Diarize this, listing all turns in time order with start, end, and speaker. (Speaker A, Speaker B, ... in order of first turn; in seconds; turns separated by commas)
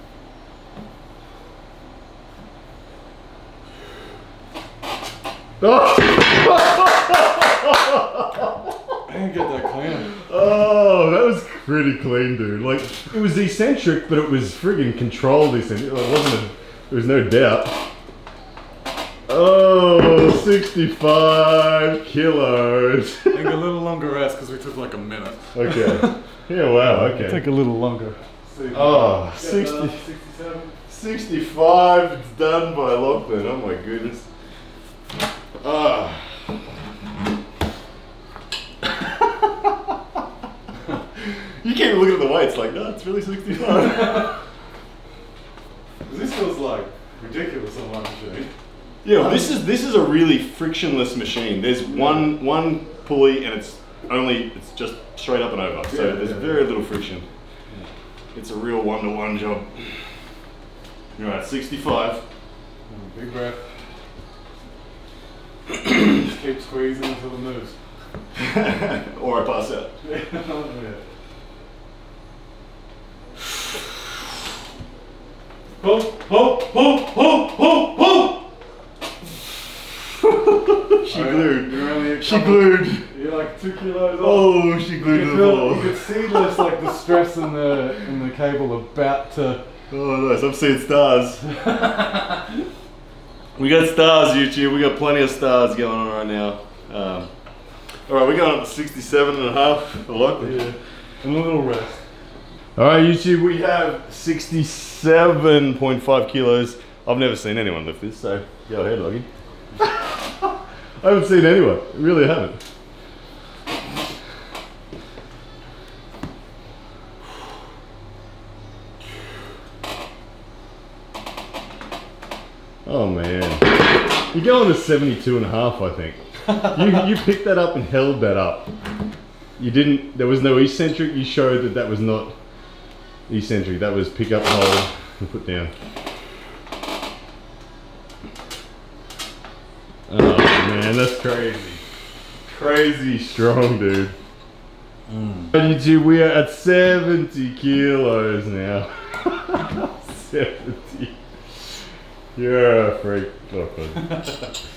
Speaker A: 5.6-8.7, Speaker B: 9.1-10.2, Speaker A: 10.1-17.8, Speaker A: 19.3-23.6, Speaker B: 23.3-26.2, Speaker A: 25.5-27.4, Speaker B: 26.8-30.8, Speaker A: 28.7-30.0, Speaker A: 30.9-34.3, Speaker A: 35.6-36.4, Speaker A: 41.6-44.4, Speaker B: 43.8-44.3, Speaker B: 46.1-48.5, Speaker A: 49.0-57.3, Speaker B: 49.1-49.5, Speaker B: 51.9-52.2, Speaker B: 55.9-56.7, Speaker A: 58.3-60.1, Speaker A: 61.2-62.2, Speaker B: 62.9-63.8, Speaker B: 65.8-67.8, Speaker A: 68.4-69.9, Speaker B: 70.0-71.0, Speaker B: 75.8-78.5, Speaker A: 80.2-83.1, Speaker B: 81.1-89.6, Speaker A: 84.2-86.1, Speaker A: 89.9-91.4, Speaker B: 91.6-92.3, Speaker A: 93.6-97.3, Speaker A: 98.1-100.7, Speaker B: 100.4-102.0, Speaker A: 102.8-109.3, Speaker A: 109.8-110.5, Speaker A: 111.0-112.6, Speaker A: 122.8-128.7, Speaker A: 129.6-132.3, Speaker A: 133.3-135.7, Speaker A: 140.1-141.8, Speaker A: 142.5-144.2, Speaker B: 145.1-145.5, Speaker A: 145.5-151.2, Speaker A: 152.3-154.4